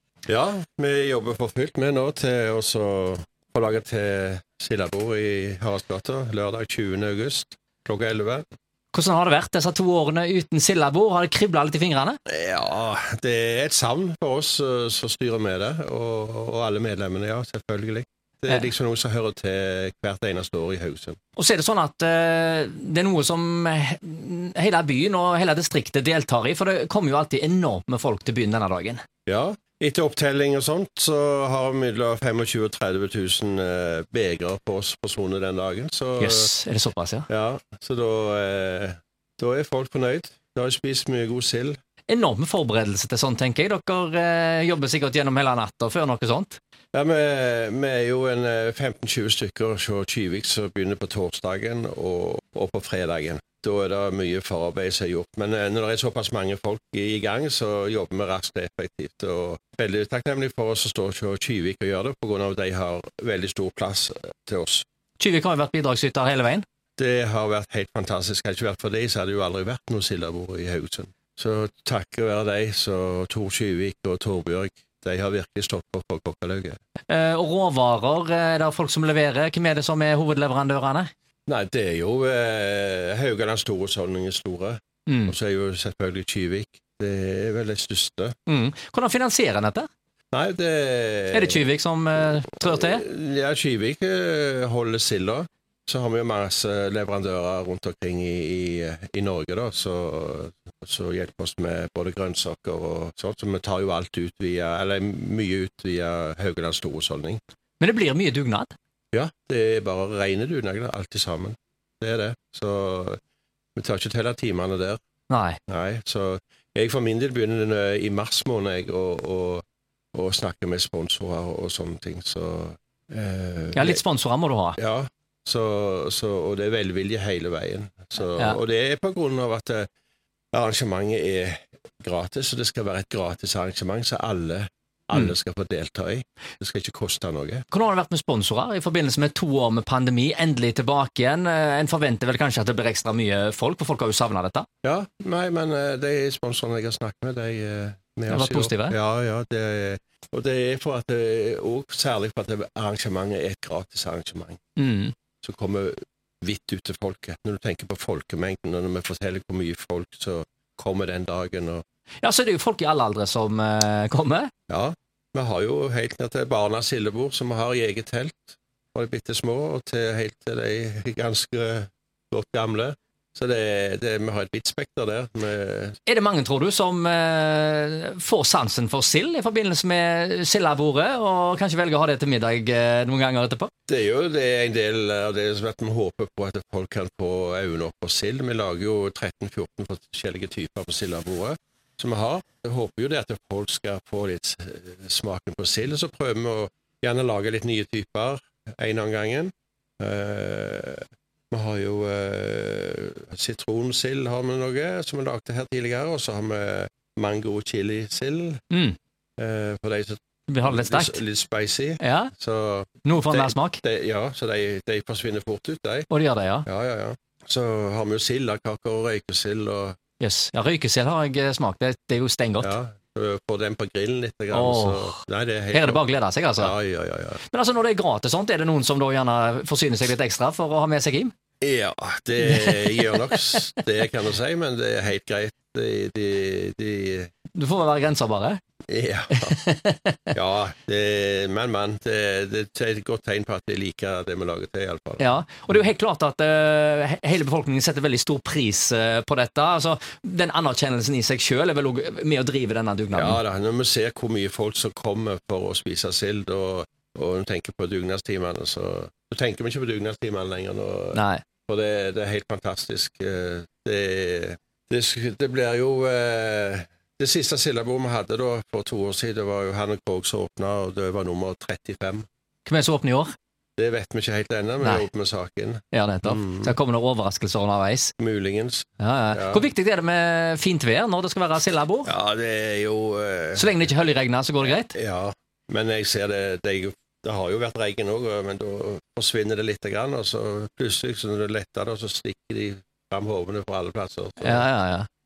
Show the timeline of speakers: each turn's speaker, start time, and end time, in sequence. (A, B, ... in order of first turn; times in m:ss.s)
0:00.3-0:08.4 A
0:08.9-0:12.2 B
0:12.3-0:21.2 A
0:21.4-0:29.0 B
0:29.3-0:36.5 A
0:36.2-0:37.3 B
0:37.3-0:41.8 A
0:42.1-0:46.6 B
0:46.9-1:04.8 A
1:05.2-1:06.6 B
1:07.0-1:16.8 A
1:17.1-1:21.1 B
1:21.5-1:28.3 A
1:25.1-1:25.3 B
1:28.5-1:29.9 B
1:30.3-1:31.7 A
1:31.3-1:33.0 B
1:32.6-1:47.4 A
1:47.8-1:48.7 B
1:49.1-1:53.2 A
1:53.7-1:55.0 A
1:55.3-1:55.6 B
1:55.7-2:04.0 A
2:03.7-2:04.8 B
2:04.8-2:09.9 A
2:10.5-2:17.6 A
2:17.7-2:24.7 B
2:24.8-2:34.6 A
2:28.3-2:29.0 B
2:34.8-2:35.1 B
2:35.4-2:41.8 A
2:42.2-2:44.5 B
2:44.7-2:56.0 A
2:56.0-3:03.7 B
3:03.9-3:28.6 A
3:28.7-3:29.0 B
3:29.4-3:36.1 A
3:30.5-3:31.2 B
3:32.0-3:32.3 B
3:33.0-3:33.8 B
3:36.1-3:36.7 B
3:36.7-3:40.0 A
3:40.2-3:42.7 B
3:42.6-3:46.0 A
3:44.5-3:45.2 B
3:45.7-3:46.7 B
3:46.6-3:47.4 A
3:47.5-3:51.3 B
3:51.6-3:57.3 A
3:52.4-3:53.4 B
3:57.5-3:58.6 B
3:58.9-3:59.6 A
3:59.3-4:00.3 B
4:00.3-4:05.4 A
4:05.2-4:13.4 B
4:13.1-4:32.2 A
4:21.1-4:21.4 B
4:32.7-4:33.3 B
4:33.8-4:36.8 A
4:35.9-4:38.1 B
4:38.2-4:39.7 A
4:39.0-4:42.1 B
4:42.1-4:43.8 A
4:43.6-4:44.9 B
4:44.6-4:54.7 A
4:54.4-4:55.1 B